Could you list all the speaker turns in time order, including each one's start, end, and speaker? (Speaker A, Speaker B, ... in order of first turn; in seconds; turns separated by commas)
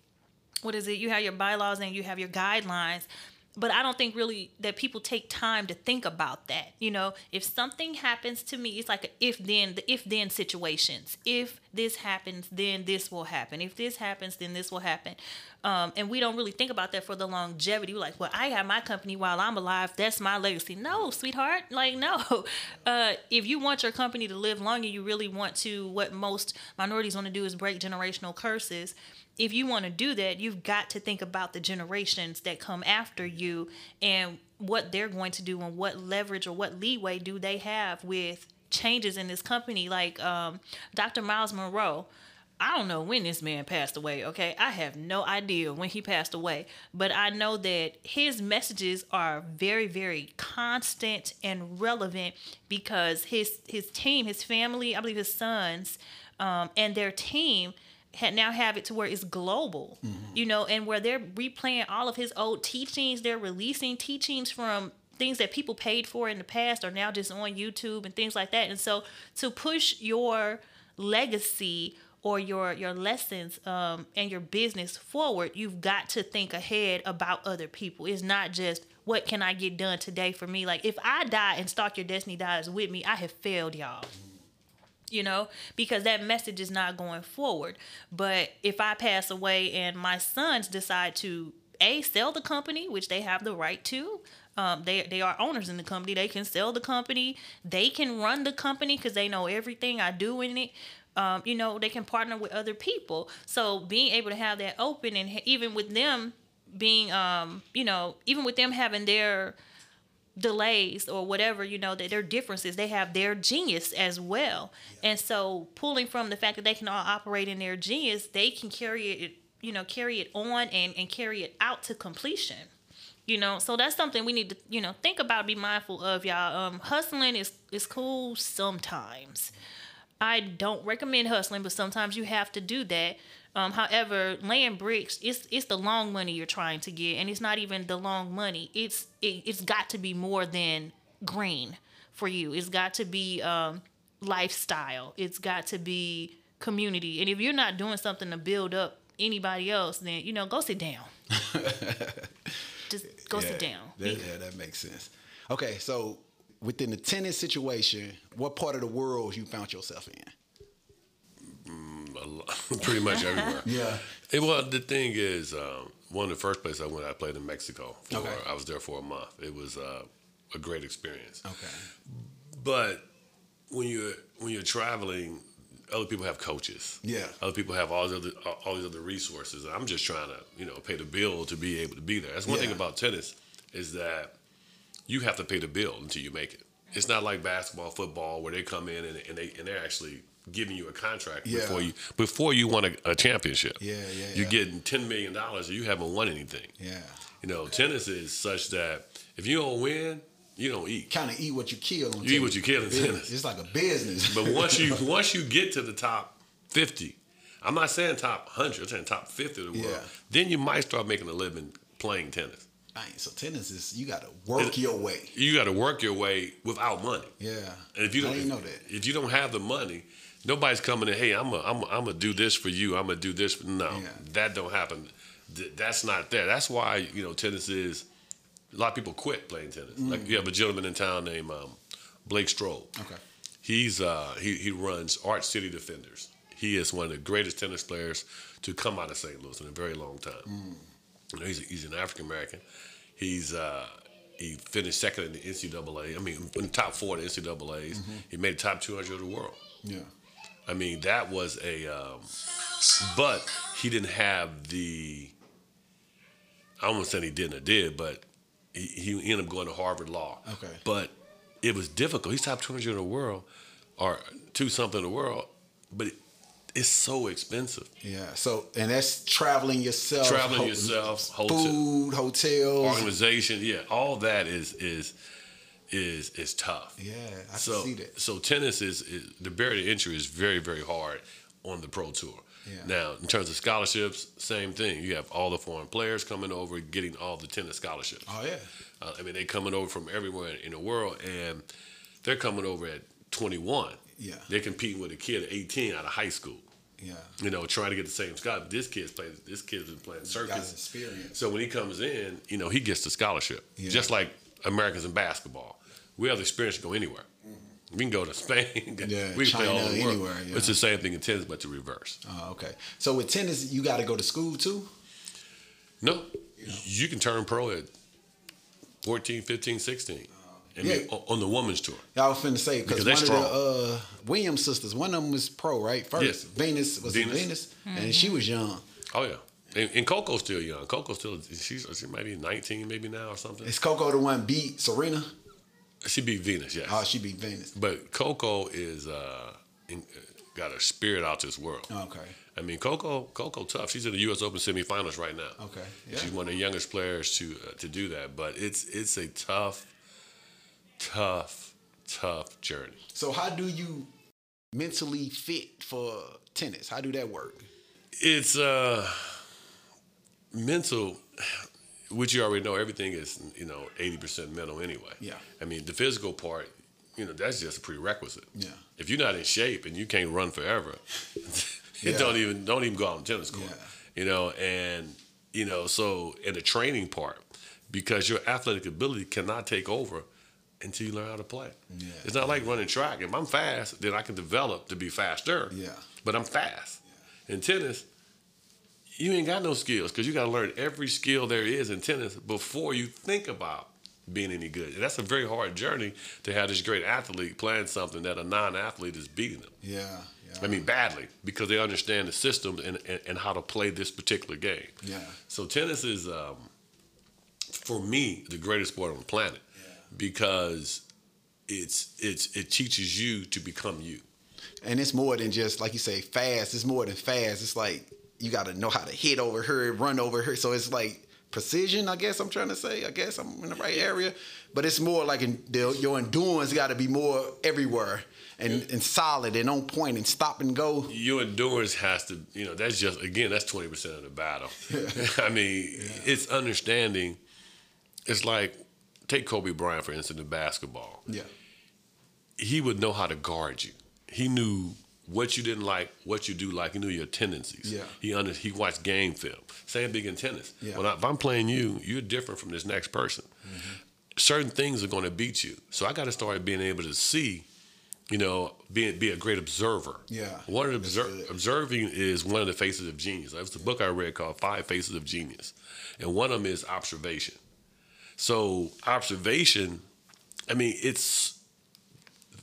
Speaker A: 0.6-42.1, Speaker A: 42.6-84.1, Speaker B: 60.0-60.4, Speaker A: 85.1-109.5, Speaker A: 110.3-122.7, Speaker A: 123.3-129.5, Speaker A: 130.2-151.1, Speaker B: 151.3-152.6, Speaker A: 152.9-154.2, Speaker B: 153.2-160.3, Speaker C: 161.4-171.4, Speaker B: 163.6-164.1, Speaker B: 168.1-168.4, Speaker B: 171.4-171.9, Speaker C: 172.1-173.0, Speaker C: 173.7-184.3, Speaker B: 177.0-177.4, Speaker B: 182.4-182.8, Speaker C: 185.1-193.8, Speaker B: 191.4-191.9, Speaker B: 193.8-194.6, Speaker C: 194.3-196.7, Speaker B: 196.8-197.2, Speaker C: 197.4-201.1, Speaker B: 201.1-205.0, Speaker C: 202.2-203.3, Speaker C: 204.2-212.7, Speaker B: 209.7-210.1, Speaker B: 212.9-215.3, Speaker C: 215.3-217.3, Speaker B: 217.4-218.8, Speaker C: 217.9-228.1, Speaker B: 223.9-224.2, Speaker C: 228.7-232.9, Speaker B: 229.9-230.4, Speaker C: 233.6-240.5, Speaker B: 240.4-240.9, Speaker C: 241.3-242.6, Speaker C: 243.2-249.6, Speaker B: 247.9-248.2, Speaker B: 249.8-250.1, Speaker C: 250.7-252.3, Speaker C: 252.8-255.3, Speaker C: 256.8-263.4, Speaker B: 260.4-260.8, Speaker C: 264.0-266.1, Speaker C: 266.7-267.9, Speaker B: 268.0-273.1, Speaker C: 270.2-271.8, Speaker C: 272.8-275.1, Speaker C: 275.9-277.0, Speaker B: 277.0-278.1, Speaker C: 277.6-288.3, Speaker B: 282.6-282.9, Speaker B: 288.2-288.7, Speaker C: 289.0-291.6, Speaker C: 292.2-296.6, Speaker B: 294.1-294.5, Speaker B: 297.0-297.3, Speaker C: 297.4-300.8, Speaker B: 300.2-301.4, Speaker C: 301.3-307.2, Speaker B: 303.8-304.1, Speaker C: 307.9-312.2, Speaker B: 309.0-310.8, Speaker B: 312.2-314.9, Speaker C: 316.0-317.9, Speaker C: 319.0-322.0, Speaker B: 320.8-321.1, Speaker B: 322.1-328.8, Speaker C: 322.9-323.6, Speaker C: 327.0-327.5, Speaker A: 327.8-328.4, Speaker C: 329.1-333.7, Speaker B: 333.6-335.3, Speaker C: 336.0-337.0, Speaker B: 336.9-337.7, Speaker C: 337.7-341.9, Speaker B: 341.9-342.4, Speaker C: 342.5-345.6, Speaker B: 345.6-346.3, Speaker C: 346.1-349.9, Speaker C: 351.0-353.0, Speaker B: 353.1-354.1, Speaker B: 354.7-357.7, Speaker C: 358.2-359.5, Speaker C: 360.5-380.2, Speaker B: 368.5-368.8, Speaker B: 372.0-372.4, Speaker B: 373.5-373.9, Speaker C: 380.8-388.0, Speaker B: 381.9-382.6, Speaker B: 385.7-386.1, Speaker C: 389.2-399.7, Speaker B: 399.8-400.9, Speaker C: 400.6-405.0, Speaker B: 405.0-405.4, Speaker C: 405.5-406.7, Speaker C: 407.7-411.0, Speaker C: 411.7-414.2, Speaker B: 414.8-431.1, Speaker C: 431.1-437.4, Speaker B: 434.9-435.3, Speaker B: 435.9-436.3, Speaker C: 438.3-438.8, Speaker C: 439.3-441.2, Speaker C: 442.6-457.6, Speaker B: 447.8-448.1, Speaker B: 453.6-454.0, Speaker C: 458.3-467.6, Speaker B: 460.3-461.5, Speaker C: 468.4-470.0, Speaker C: 470.7-471.6